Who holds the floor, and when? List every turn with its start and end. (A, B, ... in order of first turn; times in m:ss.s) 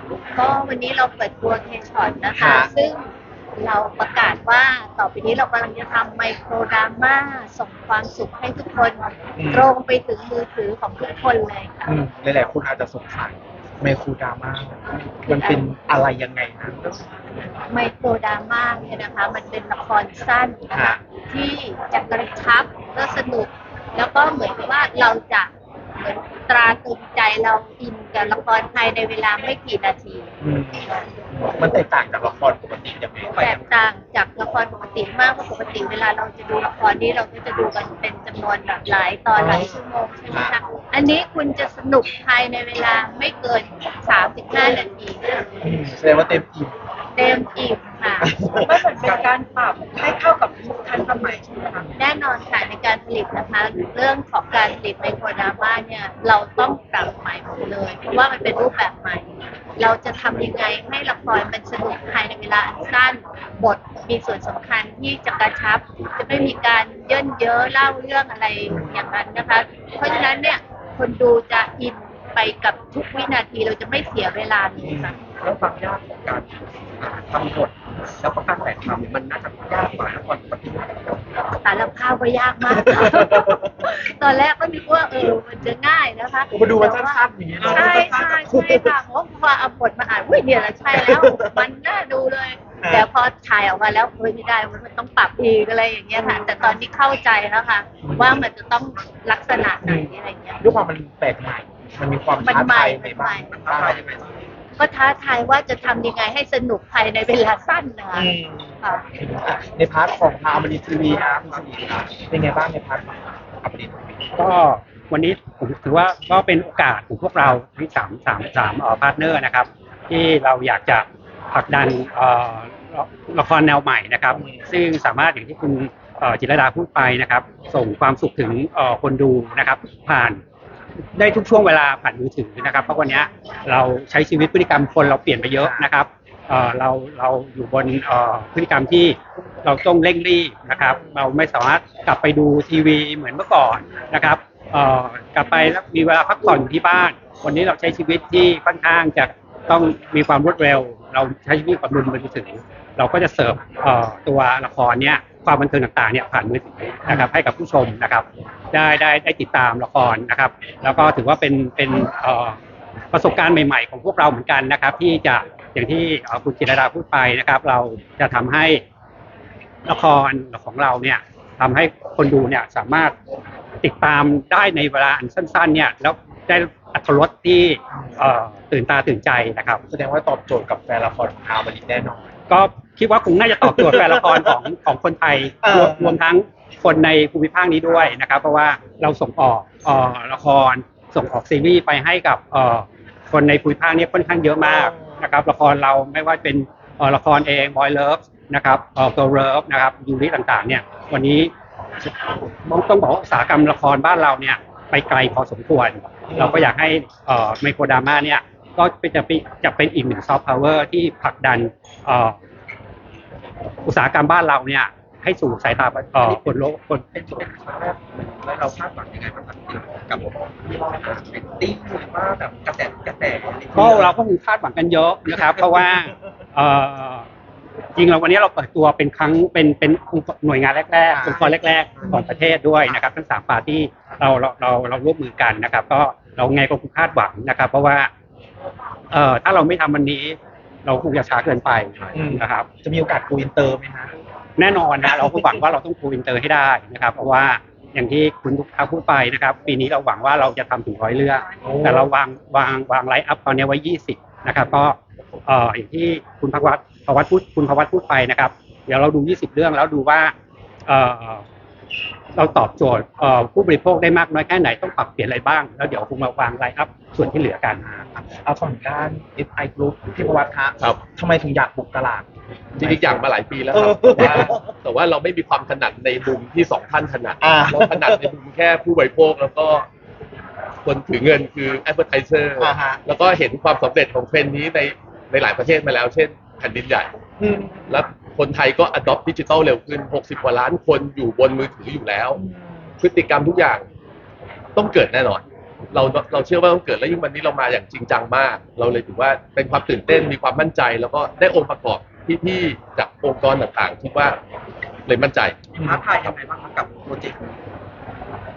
0:00.3-0:11.9 A
0:02.4-0:02.7 B
0:09.4-0:09.7 B
0:11.8-0:17.0 B
0:15.2-0:15.7 A
0:17.7-0:30.3 A
0:20.7-0:21.0 B
0:30.4-0:33.3 B
0:33.3-0:33.7 C
0:33.4-0:45.2 A
0:39.4-0:40.6 B
0:45.6-0:46.7 B
0:47.2-0:48.3 A
0:48.2-0:48.8 B
0:48.6-0:52.0 C
0:52.0-1:15.2 A
1:08.7-1:09.1 B
1:14.8-1:15.2 B
1:15.3-1:21.2 C
1:21.6-1:27.2 A
1:22.7-1:23.8 B
1:26.5-1:29.0 B
1:27.6-1:28.4 C
1:27.7-1:40.6 A
1:30.9-1:31.6 B
1:32.8-1:33.1 B
1:36.2-1:36.8 B
1:38.0-1:38.4 B
1:39.8-1:44.0 B
1:42.4-1:43.5 A
1:43.4-1:44.3 C
1:44.8-1:48.3 A
1:48.1-1:54.2 B
1:51.2-1:51.7 C
1:54.4-2:10.4 D
2:11.2-2:42.6 D
2:15.6-2:15.9 B
2:20.7-2:21.2 B
2:43.1-2:48.8 D
2:49.9-2:53.2 D
2:53.8-2:59.8 D
2:57.9-2:58.2 B
2:59.9-3:02.3 B
3:02.5-3:21.5 D
3:03.6-3:04.5 B
3:05.6-3:06.2 B
3:14.6-3:15.2 B
3:22.0-3:32.4 D
3:26.3-3:26.7 B
3:33.9-3:37.0 D
3:36.2-3:36.6 C
3:37.1-3:44.2 C
3:43.7-3:47.2 D
3:48.0-3:58.1 D
3:51.1-3:52.4 B
3:59.1-4:02.7 D
4:02.1-4:04.1 B
4:04.6-4:20.3 D
4:11.6-4:12.1 B
4:20.9-4:21.4 D
4:22.4-4:28.0 D
4:28.0-4:32.3 B
4:32.8-4:39.9 E
4:32.8-4:34.7 B
4:37.4-4:38.3 B
4:40.8-4:47.1 E
4:42.6-4:43.0 B
4:47.4-4:48.0 B
4:47.9-4:52.4 E
4:52.3-4:52.9 B
4:53.0-4:53.8 E
4:54.8-5:04.4 E
5:05.1-5:05.6 E
5:05.8-5:06.0 B
5:05.8-5:07.6 C